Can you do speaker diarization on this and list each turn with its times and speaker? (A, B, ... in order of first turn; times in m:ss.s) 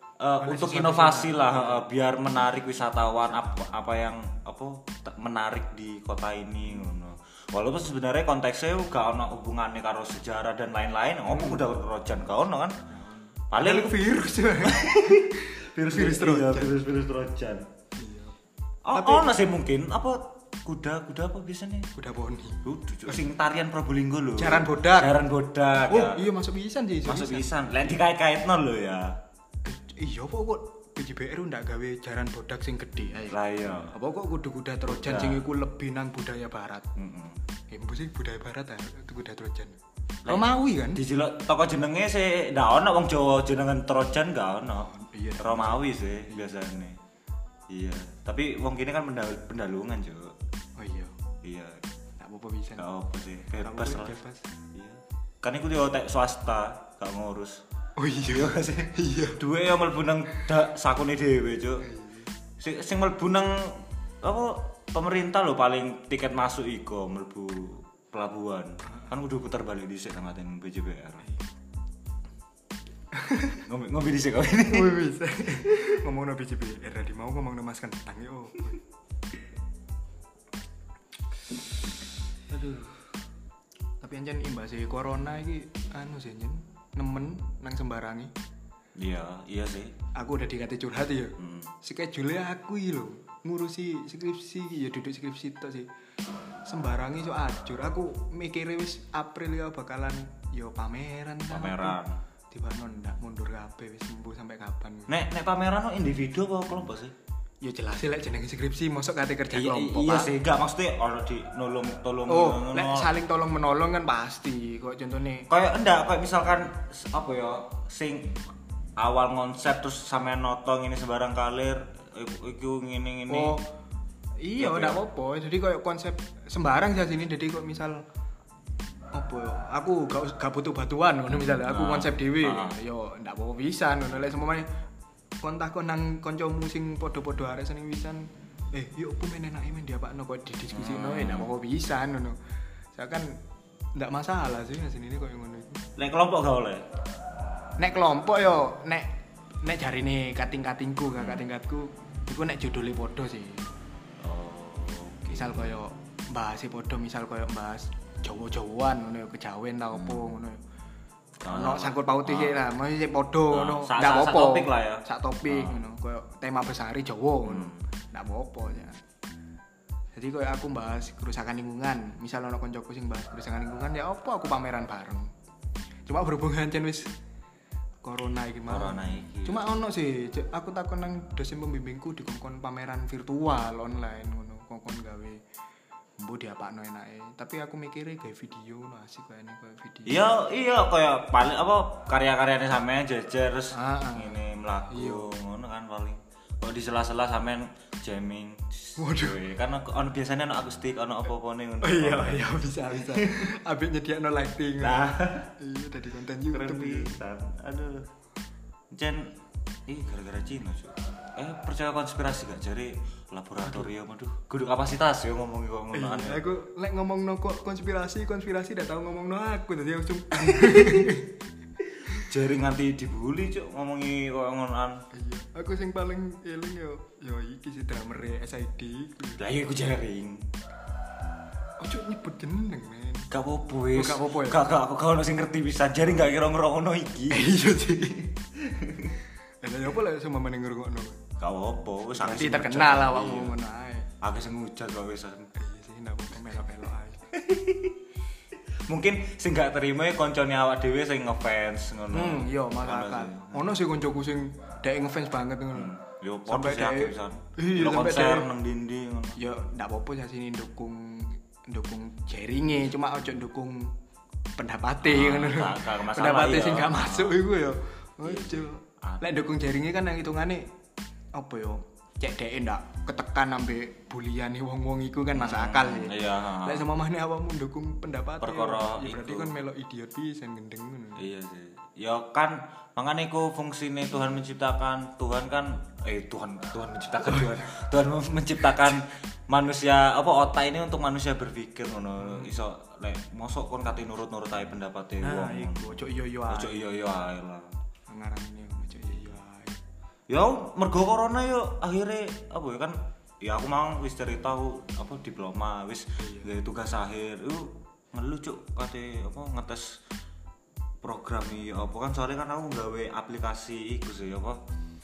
0:00.2-0:12.8 A
0:00.4-0:01.9 B
0:03.3-0:03.6 B
0:11.3-0:11.6 B
0:12.9-0:16.8 B
0:13.5-0:14.1 A
0:14.6-0:17.6 A
0:18.0-0:18.4 B
0:18.8-0:21.9 A
0:18.9-0:19.3 B
0:21.9-0:23.2 B
0:22.6-0:26.2 A
0:24.4-0:25.2 B
0:25.9-0:27.5 B
0:27.0-0:29.2 A
0:29.6-0:33.4 B
0:33.3-0:33.9 A
0:33.9-0:36.9 B
0:34.9-0:35.4 A
0:37.0-0:37.4 A
0:37.7-0:41.0 B
0:40.2-0:47.0 A
0:44.8-0:46.5 B
0:47.7-0:50.4 A
0:50.8-0:51.2 B
0:51.4-0:51.8 A
0:52.2-0:52.9 B
0:52.8-0:54.2 A
0:53.6-0:54.4 B
0:54.8-0:57.6 A
0:58.0-0:59.4 B
0:58.3-1:01.9 A
1:01.9-1:02.3 B
1:02.6-1:11.2 A
1:13.1-1:13.6 B
1:13.6-1:14.9 A
1:14.6-1:18.8 B
1:22.5-1:23.0 A
1:24.0-1:28.3 B
1:29.0-1:29.9 A
1:30.1-1:35.9 B
1:31.4-1:31.7 A
1:36.6-1:42.0 B
1:41.5-1:42.2 A
1:42.5-1:45.1 B
1:45.1-1:47.1 A
1:47.6-1:50.3 B
1:49.5-1:53.1 A
1:52.3-1:55.5 B
1:55.5-1:58.4 A
1:59.0-2:03.6 A
2:03.3-2:03.6 B
2:04.4-2:08.0 B
2:04.6-2:05.0 A
2:09.1-2:14.6 B
2:11.3-2:12.8 A
2:15.4-2:22.4 B
2:20.7-2:21.5 A
2:22.9-2:23.4 B
2:23.9-2:25.8 B
2:26.0-2:26.8 A
2:27.8-2:29.1 B
2:29.6-2:33.7 B
2:31.2-2:31.5 A
2:34.2-2:35.7 A
2:35.3-2:40.6 B
2:39.9-2:40.4 A
2:41.4-2:42.6 A
2:41.5-2:49.0 B
2:43.5-2:45.8 A
2:47.4-2:47.9 A
2:50.1-2:55.3 B
2:56.1-2:57.1 B
2:58.0-3:05.4 B
2:58.7-2:59.7 A
3:06.2-3:10.2 B
3:10.0-3:23.5 A
3:13.7-3:15.3 B
3:19.0-3:19.4 B
3:21.8-3:27.1 B
3:24.8-3:25.5 A
3:26.5-3:28.1 A
3:28.9-3:29.3 A
3:29.9-3:36.6 A
3:35.9-3:41.4 B
3:40.4-3:41.1 A
3:42.1-3:45.0 A
3:45.1-3:49.4 B
3:49.4-3:50.5 A
3:51.8-3:53.3 B
3:53.3-3:57.6 A
3:53.9-3:54.7 B
3:57.3-3:58.4 B
3:58.6-3:59.2 A
3:59.6-4:01.2 B
4:01.4-4:03.6 A
4:02.1-4:04.1 B
4:04.2-4:05.5 A
4:05.5-4:07.3 B
4:07.3-4:08.0 A
4:08.9-4:13.8 A
4:12.1-4:15.9 B
4:15.8-4:19.4 A
4:16.5-4:18.5 B
4:19.4-4:23.9 B
4:24.6-4:30.6 B
4:25.0-4:27.4 A
4:28.2-4:29.3 A
4:31.3-4:41.2 B
4:35.3-4:36.9 A
4:38.4-4:39.6 A
4:41.2-4:57.7 A
4:52.2-4:52.6 B
4:55.2-4:56.8 B
4:58.1-4:59.8 B
5:00.3-5:10.0 A
5:06.2-5:06.5 B
5:11.0-5:14.6 A